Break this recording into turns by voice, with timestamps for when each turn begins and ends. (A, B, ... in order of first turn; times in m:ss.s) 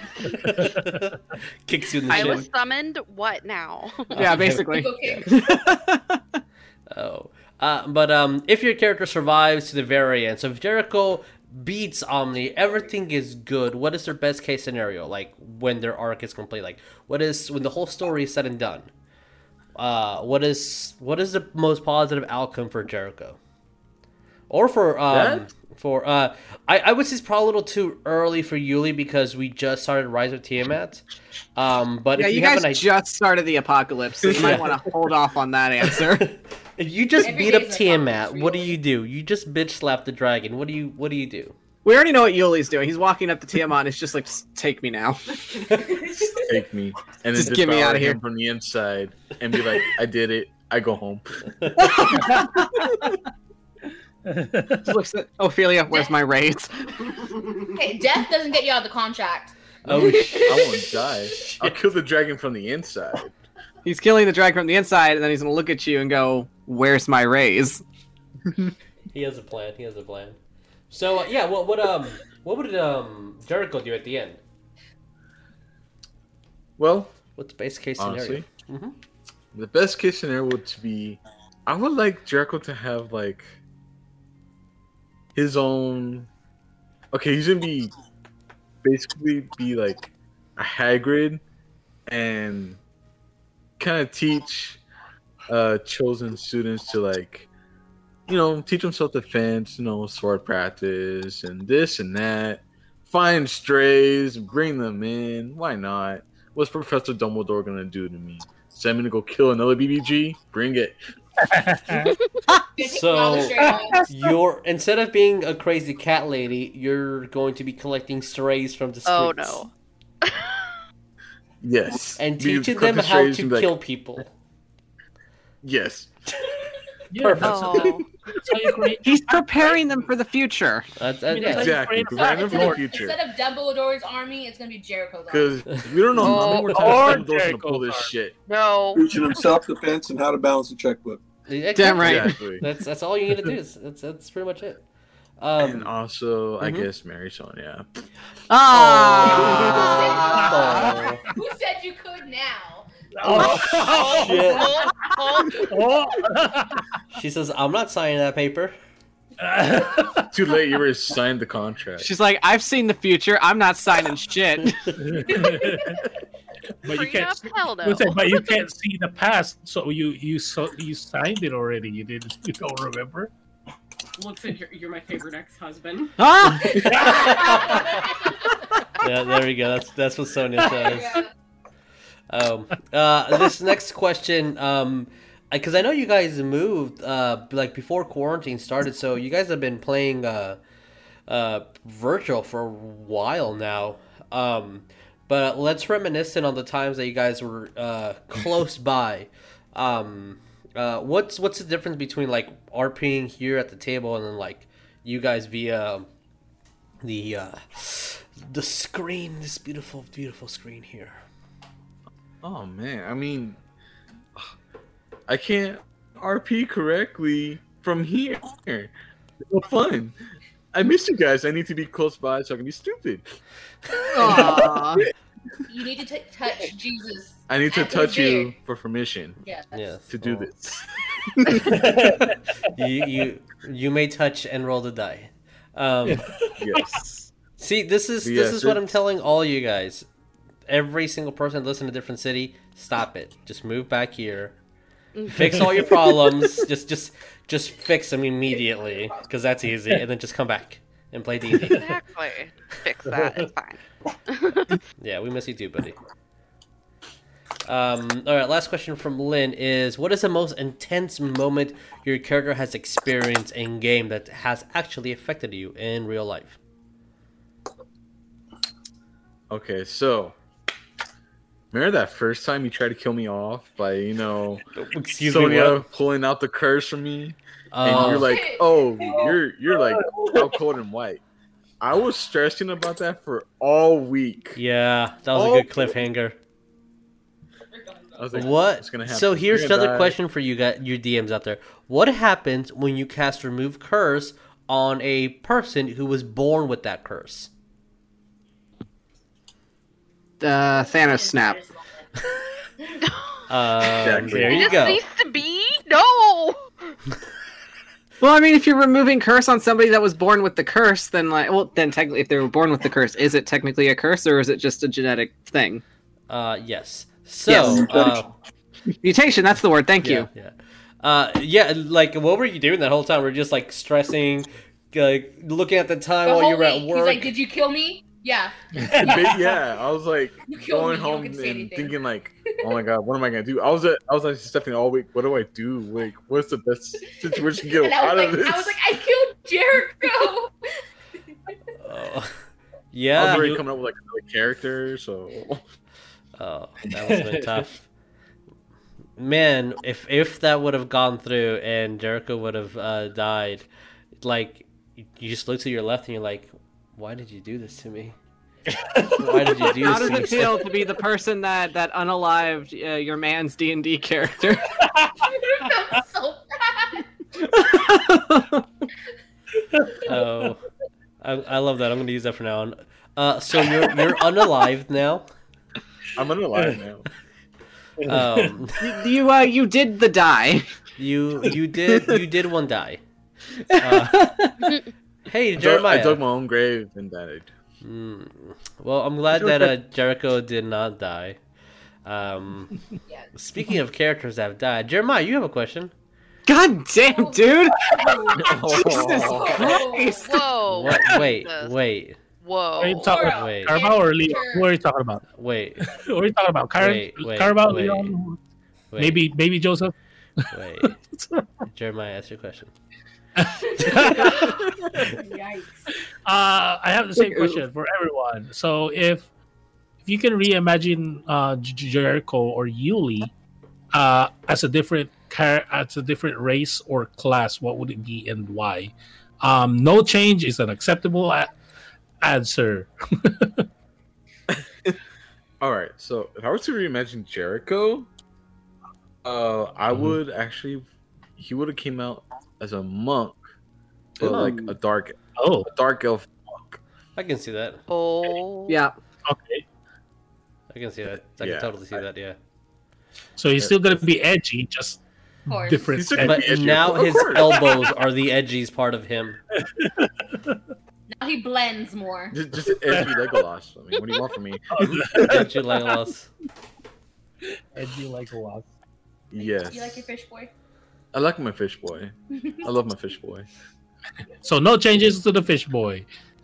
0:00.3-0:02.4 A
0:02.1-0:04.2 B
0:02.1-0:02.4 C
0:04.1-0:05.2 A
0:04.1-0:06.2 C
0:04.6-0:05.4 D
0:06.9-0:18.9 A
0:19.7-0:23.4 A
0:24.5-0:31.0 A
0:25.1-0:25.5 E
0:31.6-0:32.8 A
0:32.2-0:36.3 C
0:34.2-0:34.6 E
0:34.3-0:34.7 A
0:36.8-0:41.5 A
0:37.2-0:38.7 D
0:41.8-0:45.4 C
0:46.1-0:46.4 D
0:46.3-0:52.0 E
0:47.3-0:48.2 C
0:51.6-0:51.9 A
0:51.8-0:52.7 C
0:52.1-0:52.5 F
0:54.3-0:54.9 F
0:54.8-0:57.1 C
0:57.7-1:01.0 D
0:59.8-1:03.3 E
0:59.9-1:00.5 A
1:03.8-1:07.8 C
1:09.1-1:10.4 A
1:10.9-1:14.4 A
1:16.8-1:17.2 E
1:17.4-1:18.9 A
1:18.0-1:18.5 E
1:19.5-1:23.6 E
1:25.3-1:26.3 E
1:27.1-1:27.9 E
1:28.8-1:31.4 E
1:32.1-1:32.8 E
1:33.8-1:34.8 E
1:35.5-1:37.5 E
1:38.3-1:51.0 E
1:51.5-1:52.1 F
1:52.8-1:54.1 D
1:52.8-1:59.6 A
1:53.6-1:54.0 C
1:59.0-1:59.7 B
2:00.2-2:00.7 B
2:01.6-2:03.7 E
2:02.2-2:04.3 A
2:05.6-2:06.1 E
2:07.1-2:09.9 F
2:07.2-2:07.8 A
2:07.4-2:08.0 B
2:09.0-2:10.9 C
2:11.0-2:11.7 A
2:11.3-2:12.8 F
2:11.4-2:13.2 E
2:12.0-2:15.6 D
2:15.3-2:18.3 E
2:16.1-2:18.1 F
2:16.2-2:17.1 B
2:18.5-2:19.0 B
2:18.9-2:21.2 G
2:21.5-2:24.8 A
2:21.7-2:22.4 C
2:22.0-2:22.6 E
2:25.4-2:25.9 A
2:25.6-2:27.9 E
2:26.6-2:26.9 A
2:28.5-2:31.0 C
2:28.7-2:31.2 A
2:29.5-2:34.8 D
2:30.4-2:30.7 F
2:33.2-2:34.6 F
2:33.4-2:35.7 B
2:34.0-2:34.7 A
2:35.5-2:36.8 F
2:37.1-2:38.8 A
2:39.4-2:40.3 F
2:40.3-2:42.1 E
2:42.0-2:44.8 C
2:45.0-2:46.0 F
2:46.8-2:53.3 F
2:46.9-2:48.2 B
2:54.2-2:56.2 H
2:56.2-2:56.9 C
2:56.6-2:58.4 D
2:56.8-2:57.4 F
2:57.0-2:58.0 A
2:59.0-3:01.2 A
3:00.6-3:01.3 D
3:02.3-3:10.6 A
3:11.3-3:26.1 A
3:27.0-3:31.2 A
3:32.4-3:33.6 E
3:35.3-3:38.9 E
3:39.4-3:40.2 E
3:40.7-3:43.2 E
3:44.1-3:45.0 C
3:44.2-3:45.1 E
3:45.7-3:48.6 D
3:47.5-3:49.4 E
3:49.4-3:50.0 D
3:49.7-3:50.5 A
3:50.1-3:51.8 E
3:51.5-3:56.3 A
3:51.6-3:52.2 F
3:56.0-3:56.9 F
3:56.6-3:57.0 E
3:57.6-4:00.1 A
3:58.2-3:58.8 E
4:00.7-4:04.6 A
4:05.2-4:05.5 B
4:05.3-4:11.8 A
4:08.8-4:09.2 D
4:11.5-4:11.9 F
4:11.8-4:14.8 B
4:13.1-4:13.4 F
4:15.0-4:16.0 A
4:17.6-4:26.6 A
4:29.5-4:30.4 E
4:31.7-4:34.6 E
4:34.8-4:35.8 A
4:35.2-4:41.2 E
4:37.7-4:38.4 A
4:37.9-4:39.4 D
4:39.8-4:40.5 F
4:41.8-4:44.6 E
4:44.6-4:46.4 A
4:45.3-4:46.0 E
4:47.7-4:48.5 D
4:48.2-4:50.2 E
4:48.3-4:57.5 A
5:00.4-5:01.6 C
5:00.6-5:02.1 D
5:03.0-5:03.4 B
5:03.5-5:05.0 A
5:04.0-5:04.8 E
5:04.4-5:06.6 B
5:08.2-5:15.8 C
5:16.3-5:18.3 A
5:17.4-5:18.3 C
5:19.0-5:20.3 C
5:20.0-5:27.3 A
5:26.2-5:29.2 D
5:28.8-5:29.4 F
5:29.0-5:38.8 E
5:30.4-5:32.8 D
5:37.0-5:40.5 D
5:41.8-5:42.4 A
5:42.9-5:43.6 A
5:43.2-5:45.6 E
5:43.2-5:43.6 F
5:46.4-5:47.8 A
5:47.0-5:47.6 F
5:49.2-5:53.6 A
5:54.2-5:58.2 A
5:58.7-6:00.5 F
5:59.2-6:00.6 A
5:59.8-6:04.7 C
6:05.2-6:07.0 D
6:07.5-6:08.6 C
6:09.7-6:10.5 F
6:10.0-6:10.6 A
6:11.2-6:15.2 A
6:16.2-6:17.0 E
6:18.0-6:18.5 F
6:18.1-6:18.8 A
6:18.8-6:20.7 C
6:21.0-6:23.0 A
6:23.7-6:24.6 C
6:23.8-6:24.3 A
6:25.3-6:26.2 A
6:25.6-6:27.5 E
6:27.8-6:31.4 A
6:32.0-6:32.8 A
6:33.3-6:35.9 A
6:36.5-6:37.9 C
6:37.0-6:40.4 D
6:38.4-6:39.8 E
6:38.6-6:40.4 C
6:40.2-6:41.8 B
6:40.7-6:42.2 A
6:42.4-6:43.2 B
6:42.8-6:45.2 F
6:43.0-6:44.7 D
6:43.2-6:43.8 A
6:45.4-6:45.9 A
6:45.8-6:48.4 F
6:46.8-6:48.1 A
6:48.9-6:49.2 A
6:49.0-6:51.5 F
6:50.5-6:51.0 A
6:51.7-6:52.7 A
6:53.4-6:55.1 F
6:53.7-6:55.8 D
6:56.2-6:59.3 F
6:57.2-6:57.5 C
7:00.0-7:03.3 F
7:03.9-7:11.5 F
7:12.2-7:13.6 F
7:14.5-7:15.0 E
7:15.6-7:18.1 E
7:19.2-7:20.8 E
7:19.9-7:20.2 F
7:21.4-7:23.4 E
7:24.2-7:26.8 E
7:24.2-7:24.6 A
7:24.2-7:24.7 C
7:25.4-7:25.7 F
7:27.2-7:27.8 A
7:27.9-7:28.8 B
7:28.7-7:28.9 C
7:29.2-7:29.6 F
7:30.7-7:32.4 A
7:31.4-7:32.0 E
7:33.4-7:36.6 F
7:33.6-7:34.0 E
7:35.5-7:35.9 D
7:35.9-7:37.7 E
7:36.2-7:39.4 A
7:39.7-7:40.6 F
7:41.1-7:42.4 D
7:42.3-7:45.4 E
7:42.9-7:43.2 F
7:44.7-7:46.0 F
7:44.8-7:46.3 A
7:47.7-7:48.7 F
7:49.3-7:50.1 E
7:49.4-7:50.5 D
7:51.1-7:53.5 E
7:52.4-7:52.7 D
7:54.4-7:56.1 F